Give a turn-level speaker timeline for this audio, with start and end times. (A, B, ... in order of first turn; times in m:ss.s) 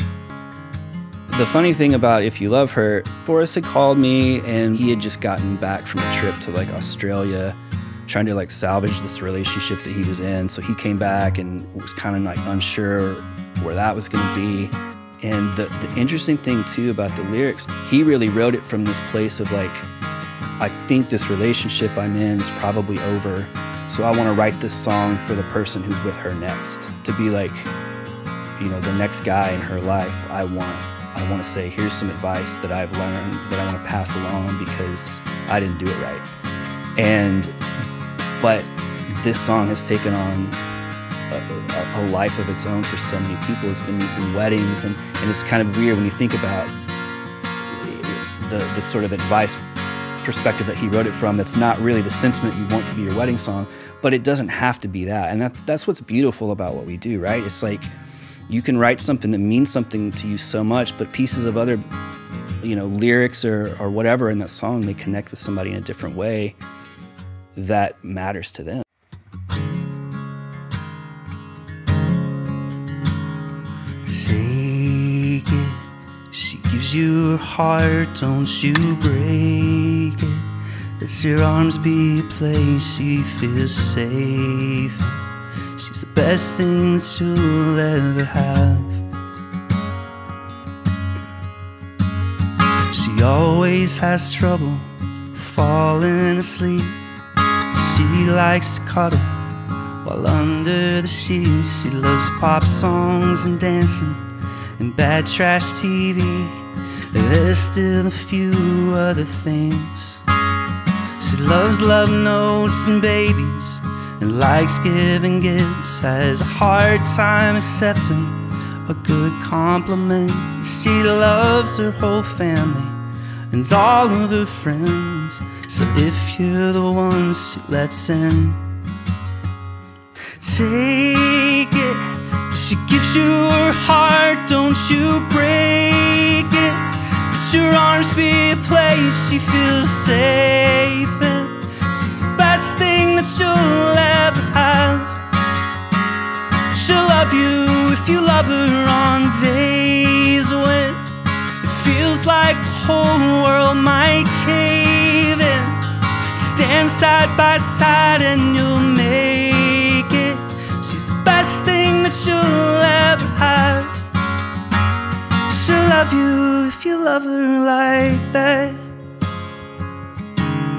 0:01.3-0:19.9 A
0:20.6-0:27.7 A
0:28.6-0:36.3 A
0:37.0-0:37.5 A
0:38.4-0:40.6 A
0:41.3-0:46.7 A
0:47.6-0:49.6 A
0:50.2-0:57.9 A
0:58.5-1:01.8 A
1:02.6-1:06.6 A
1:07.5-1:08.8 A
1:14.0-1:20.5 A
1:19.0-1:19.4 B
1:21.0-1:23.9 A
1:21.0-1:21.9 B
1:22.8-1:25.1 B
1:25.8-1:28.9 B
1:32.9-1:34.8 B
1:35.4-1:36.9 B
1:37.7-1:39.2 B
1:40.0-1:44.2 B
1:40.6-1:41.1 A
1:42.1-1:44.2 A
1:44.8-1:46.7 A
1:44.8-1:46.4 B
1:47.1-1:50.2 B
1:47.6-1:50.2 A
1:51.2-1:53.6 B
1:51.2-1:53.8 A
1:54.2-1:58.3 B
1:56.3-1:58.3 A
1:58.9-1:59.3 A
1:58.9-2:02.9 B
1:59.8-2:02.1 A
2:02.6-2:02.9 A
2:03.5-2:08.6 B
2:05.2-2:06.4 A
2:10.4-2:15.9 B
2:10.7-2:12.2 A
2:13.3-2:14.4 A
2:15.0-2:17.3 A
2:17.3-2:25.1 B
2:18.3-2:19.4 A
2:20.2-2:21.9 A
2:22.5-2:22.8 A
2:26.7-2:31.0 B
2:29.5-2:31.0 A
2:31.6-2:36.2 A
2:31.6-2:34.6 B
2:35.3-2:35.7 B
2:36.3-2:44.0 B
2:45.5-2:48.8 B